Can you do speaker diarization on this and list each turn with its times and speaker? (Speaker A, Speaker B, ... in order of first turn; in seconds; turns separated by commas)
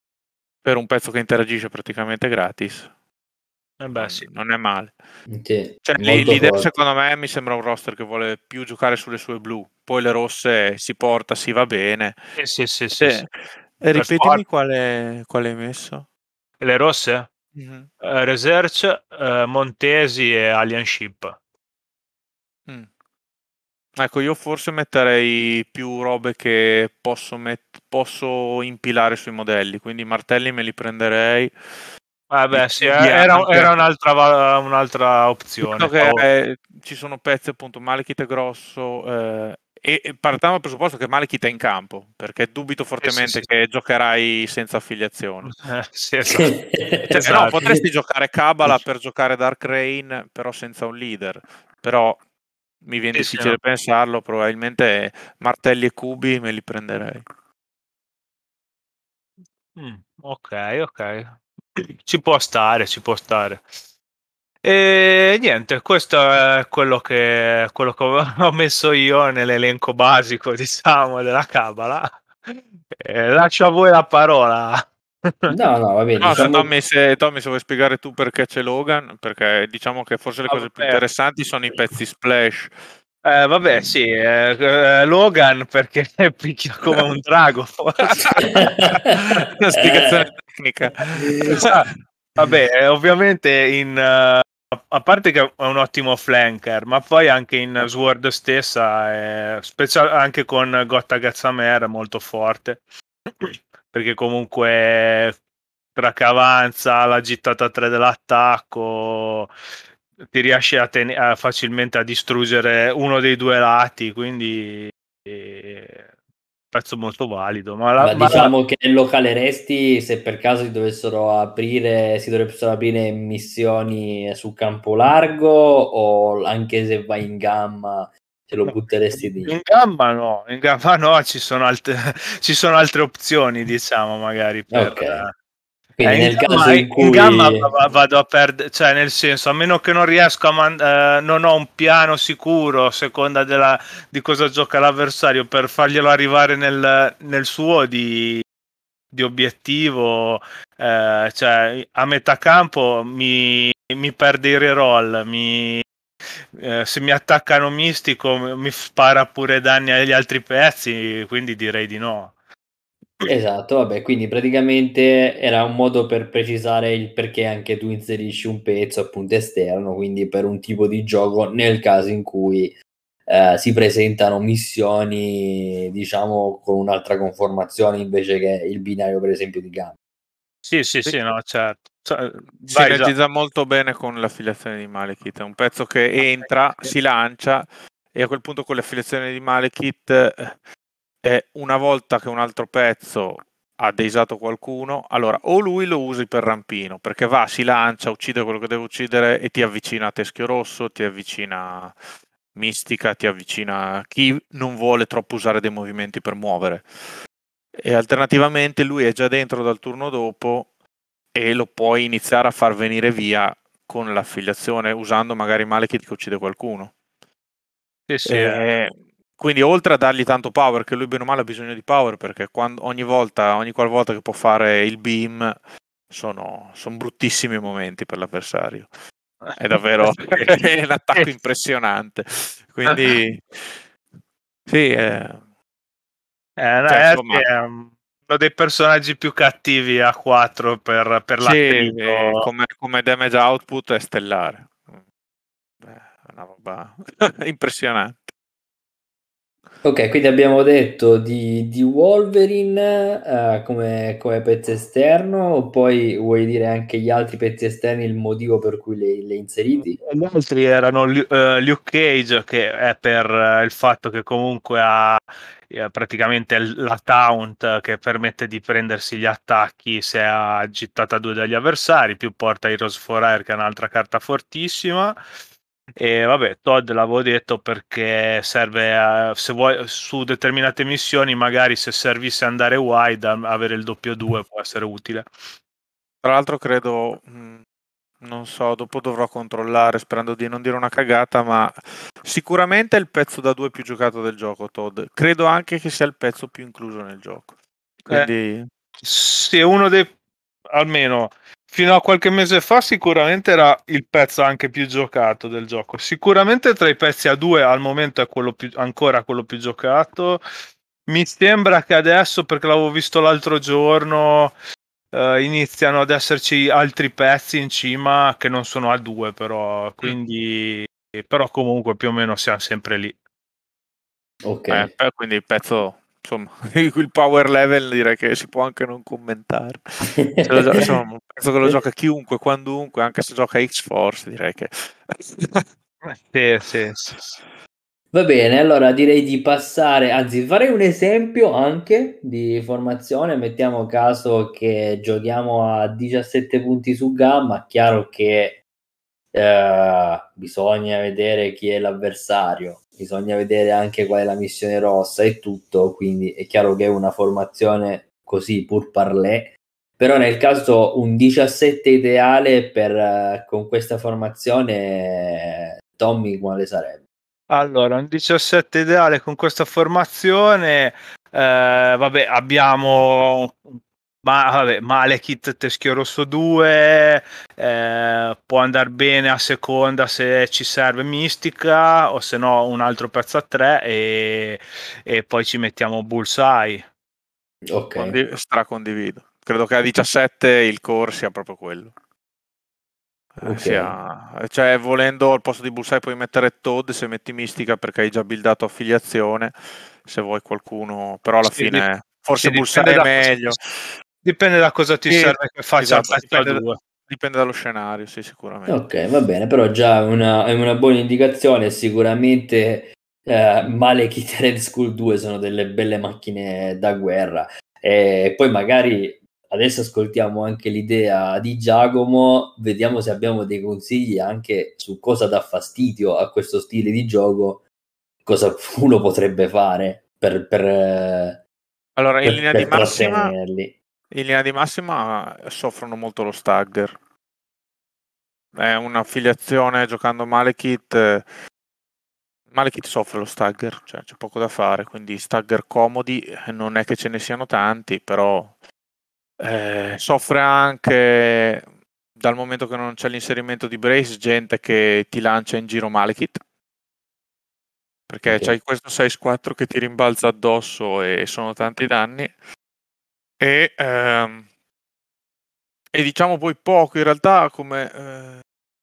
Speaker A: 0.6-2.9, Speaker B: 3.8-4.3, Speaker A: 3.9-4.9, Speaker C: 5.3-6.7, Speaker A: 5.8-12.2, Speaker B: 12.4-13.2, Speaker A: 12.9-16.1, Speaker B: 13.9-14.4, Speaker B: 16.6-17.3, Speaker A: 17.5-17.9, Speaker B: 18.0-21.4, Speaker A: 23.9-31.5, Speaker B: 32.3-36.2, Speaker A: 32.5-33.7, Speaker A: 35.6-45.5, Speaker B: 43.0-43.5, Speaker B: 45.4-46.6, Speaker C: 46.4-47.8, Speaker A: 47.1-52.2, Speaker B: 47.2-47.6, Speaker A: 52.8-57.2, Speaker B: 53.1-53.6, Speaker B: 59.7-63.6, Speaker B: 64.6-75.5, Speaker C: 75.5-76.7, Speaker A: 76.2-82.7, Speaker B: 80.5-81.0, Speaker B: 83.2-88.5, Speaker A: 88.0-91.8, Speaker C: 88.5-89.1, Speaker C: 89.7-90.2, Speaker B: 91.4-102.8, Speaker B: 103.4-105.4, Speaker B: 105.9-109.5, Speaker B: 110.3-116.1, Speaker B: 116.7-118.5, Speaker C: 118.0-129.5, Speaker B: 128.6-135.3, Speaker C: 134.7-135.2, Speaker C: 136.0-137.7, Speaker B: 136.0-148.4, Speaker B: 149.1-155.8, Speaker B: 156.5-162.3, Speaker C: 163.2-179.9, Speaker B: 180.6-183.1, Speaker A: 182.6-190.6, Speaker A: 191.2-201.9, Speaker A: 202.5-206.8, Speaker A: 207.8-210.7, Speaker A: 211.3-216.9, Speaker B: 218.1-218.6, Speaker A: 218.2-225.6, Speaker A: 226.1-228.9, Speaker B: 229.4-230.6, Speaker A: 229.6-233.7, Speaker A: 234.7-235.4, Speaker B: 236.6-242.5, Speaker A: 236.9-237.5, Speaker A: 241.4-245.0, Speaker A: 245.8-248.3, Speaker C: 249.8-260.0, Speaker B: 260.0-275.2, Speaker B: 275.9-285.3, Speaker A: 286.2-287.6, Speaker A: 288.2-297.5, Speaker A: 298.1-298.7, Speaker B: 299.0-300.1, Speaker B: 300.7-310.4, Speaker B: 311.1-314.5, Speaker B: 315.1-323.1, Speaker C: 324.4-324.9, Speaker A: 324.7-335.6, Speaker C: 330.1-330.8, Speaker B: 336.0-337.4, Speaker C: 338.1-348.6, Speaker C: 349.3-367.0, Speaker B: 367.5-386.8, Speaker C: 387.6-388.2, Speaker A: 387.9-391.9, Speaker A: 393.4-403.6, Speaker C: 393.4-393.9, Speaker B: 401.4-401.8, Speaker B: 402.4-403.6, Speaker B: 404.2-406.8, Speaker A: 405.1-408.8, Speaker C: 408.7-427.6, Speaker C: 428.2-431.4, Speaker A: 432.0-433.3, Speaker C: 432.2-433.7, Speaker A: 434.1-436.9, Speaker A: 438.5-441.2, Speaker A: 442.5-448.5, Speaker A: 449.4-451.6, Speaker A: 452.2-456.4, Speaker A: 458.1-462.3, Speaker C: 458.3-458.5, Speaker A: 463.4-464.4, Speaker A: 465.9-468.4